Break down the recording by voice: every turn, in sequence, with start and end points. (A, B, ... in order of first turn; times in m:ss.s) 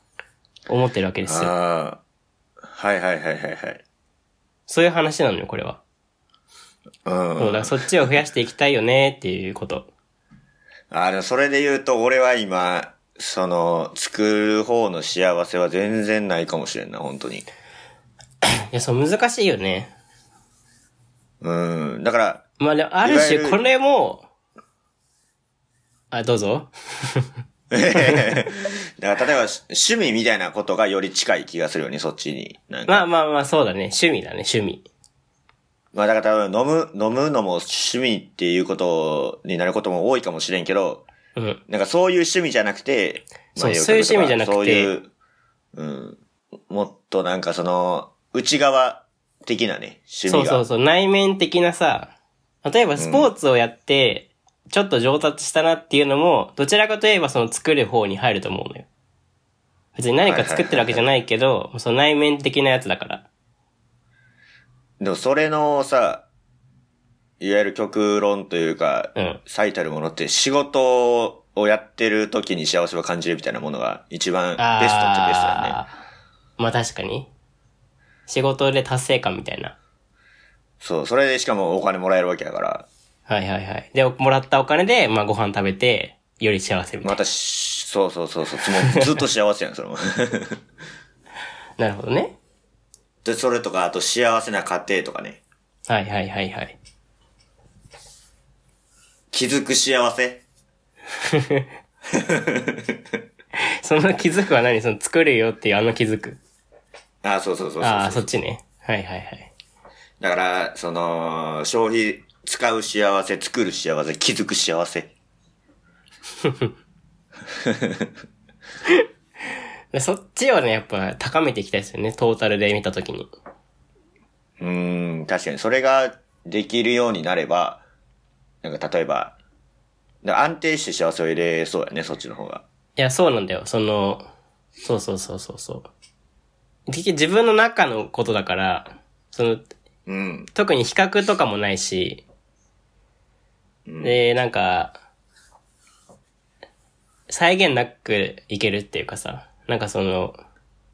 0:00.7-0:01.5 A
0:01.2-0:02.0 B
0:02.7-0:03.8 B
0:04.7-0:05.8 A
0:07.0-0:07.9 B
0:07.4-0:09.9 A
0:10.9-0:17.4 B
0:18.7-0:19.9 A
0:21.4-0:22.4 B
0:22.6-0:24.3 A
0:23.0-0:23.6 B
0:26.1-0:27.3 A
0:27.7-0:33.1 B
0:28.0-0:28.4 A
0:32.9-0:34.9 A
0:35.9-0:41.0 B
0:41.7-0:45.1 B
0:43.6-0:44.9 A
0:45.8-0:50.6 B
0:50.3-0:52.1 A
0:52.6-0:58.9 A
0:53.0-0:53.3 B
1:00.0-1:03.3 A
1:00.2-1:01.1 B
1:05.0-1:06.2 B
1:07.4-1:15.8 B
1:09.2-1:09.4 A
1:14.6-1:15.9 A
1:16.6-1:17.3 A
1:18.3-1:19.8 A
1:20.8-1:22.9 B
1:23.3-1:27.2 A
1:27.0-1:30.6 B
1:31.8-1:32.4 A
1:33.2-1:35.4 B
1:35.9-1:36.8 A
1:39.3-1:40.4 B
1:41.3-1:41.6 A
1:42.2-1:42.9 B
1:43.8-1:46.4 A
1:47.2-1:48.3 B
1:47.8-1:49.5 A
1:50.2-1:55.1 B
1:56.4-1:56.7 A
1:57.6-1:58.1 B
1:59.9-2:03.3 A
2:04.6-2:07.8 B
2:08.6-2:09.4 B
2:10.2-2:12.6 B
2:13.0-2:14.2 A
2:14.8-2:15.9 A
2:16.9-2:19.7 A
2:20.1-2:20.5 B
2:20.5-2:22.2 A
2:23.9-2:24.2 B
2:24.0-2:25.0 A
2:27.3-2:30.4 A